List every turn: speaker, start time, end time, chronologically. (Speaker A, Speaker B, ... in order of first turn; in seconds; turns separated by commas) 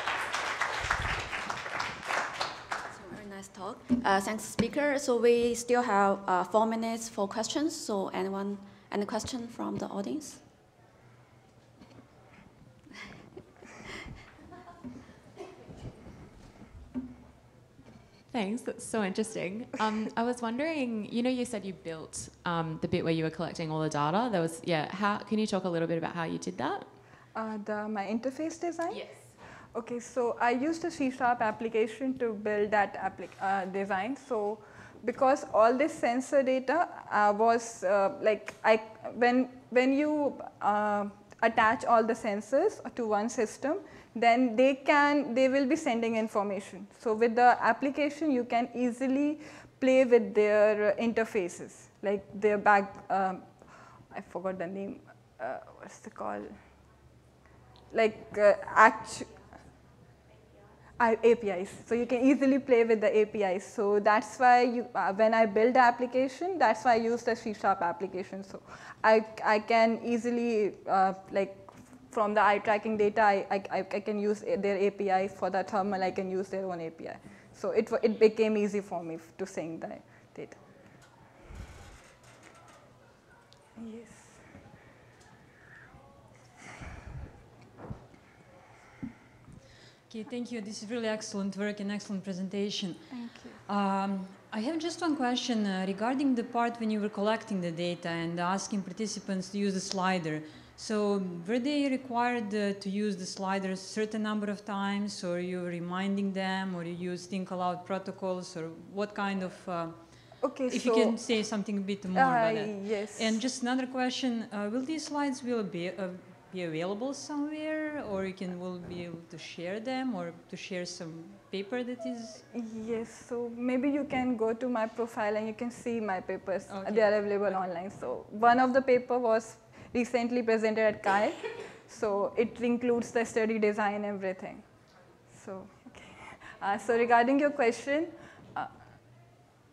Speaker A: 2.9-10.4, Speaker B: 18.3-26.9, Speaker C: 27.4-29.1, Speaker C: 29.7-53.5, Speaker C: 54.1-56.5, Speaker C: 57.9-59.3, Speaker C: 61.0-80.6, Speaker C: 83.8-84.4, Speaker D: 90.1-122.4, Speaker C: 93.1-93.6, Speaker C: 110.4-111.2, Speaker C: 112.1-113.4, Speaker C: 122.5-134.7, Speaker D: 126.7-127.6, Speaker C: 135.3-138.7